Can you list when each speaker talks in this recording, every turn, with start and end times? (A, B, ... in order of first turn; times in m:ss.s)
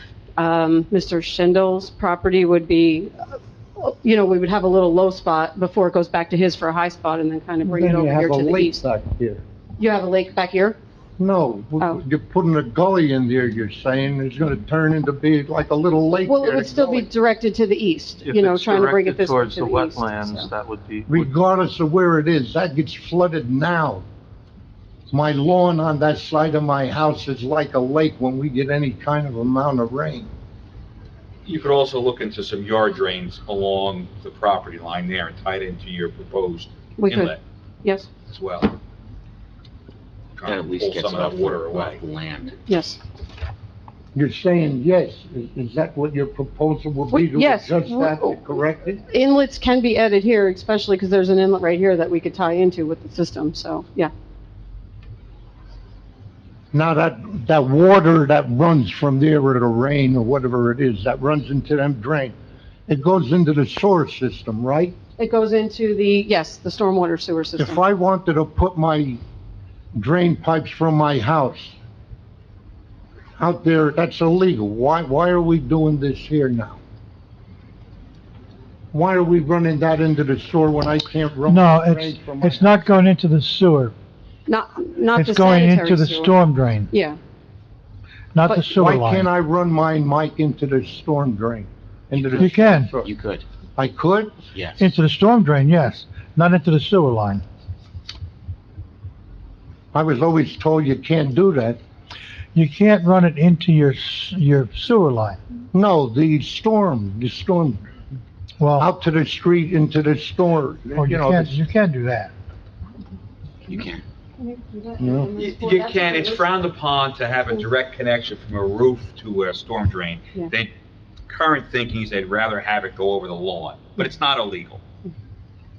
0:00.4-0:08.8 A
0:07.6-0:09.4 B
0:09.8-0:10.8 A
0:11.2-0:17.1 B
0:16.3-0:20.5 A
0:18.3-0:21.2 C
0:21.1-0:24.0 B
0:25.1-0:30.3 B
0:31.4-0:37.4 D
0:37.0-0:38.1 A
0:38.3-0:38.8 D
0:40.4-0:42.0 D
0:40.4-0:42.5 E
0:42.7-0:43.0 A
0:44.2-0:49.0 B
0:47.1-0:48.4 A
0:49.1-0:54.1 A
0:56.7-1:02.4 B
1:02.9-1:05.0 B
1:05.2-1:07.8 A
1:07.6-1:09.2 B
1:10.0-1:11.8 B
1:13.4-1:16.8 B
1:18.9-1:22.7 B
1:21.5-1:24.0 F
1:24.5-1:26.4 A
1:25.2-1:26.9 F
1:26.9-1:27.2 A
1:28.3-1:29.3 F
1:28.7-1:33.1 B
1:32.4-1:33.0 F
1:33.0-1:33.4 E
1:33.8-1:34.4 B
1:34.5-1:34.8 E
1:34.8-1:37.4 F
1:39.9-1:41.8 B
1:42.6-1:45.4 F
1:45.7-1:47.8 B
1:48.6-1:48.9 F
1:48.8-1:51.6 B
1:51.0-1:52.3 F
1:53.6-1:54.0 E
1:54.4-1:56.5 A
1:55.0-1:55.3 B
1:55.4-2:00.7 D
2:01.3-2:04.8 D